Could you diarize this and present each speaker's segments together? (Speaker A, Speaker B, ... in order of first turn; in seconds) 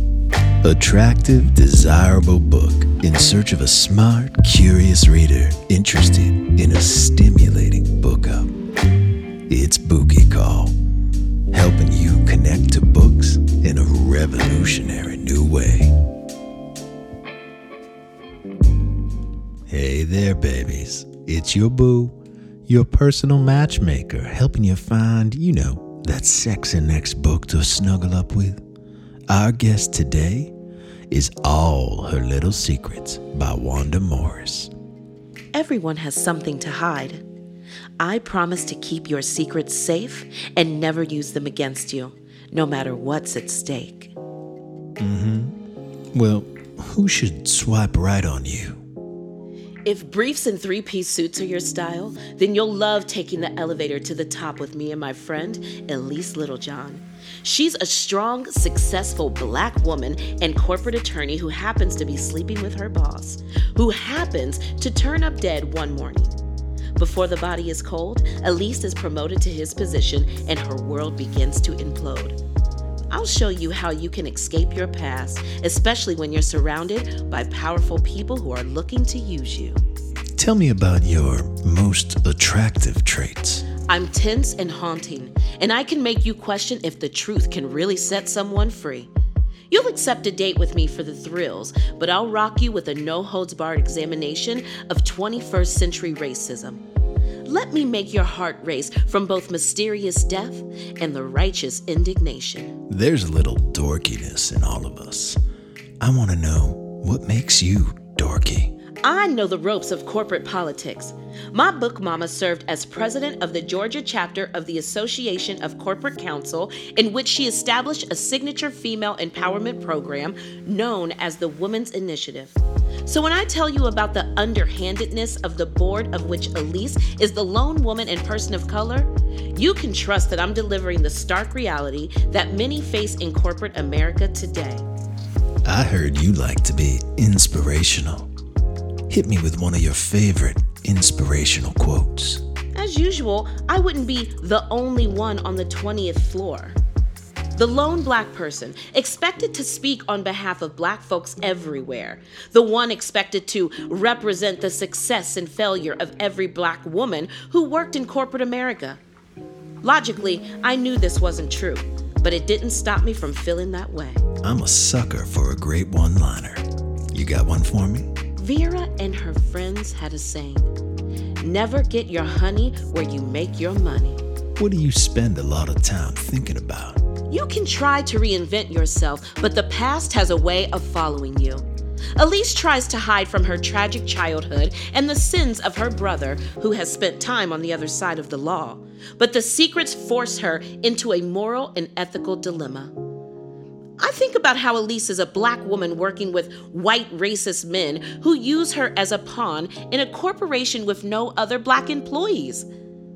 Speaker A: 0.6-8.5, 9.5-10.7, 11.5-15.9, 19.7-28.6, 29.3-30.5, 31.1-34.7, 45.0-45.5, 46.1-48.8, 80.3-83.7, 102.9-105.4, 106.0-108.7, 135.7-138.3, 139.1-142.4, 164.4-168.1, 174.6-177.0
Speaker B: 35.5-37.2, 38.0-44.1, 49.8-66.3, 67.0-72.4, 73.1-79.8, 83.8-89.1, 89.7-96.8, 97.4-102.8, 109.0-134.8, 142.7-146.8, 147.6-159.0, 159.8-164.2, 168.4-170.7, 171.4-174.2, 177.3-192.9, 194.0-202.7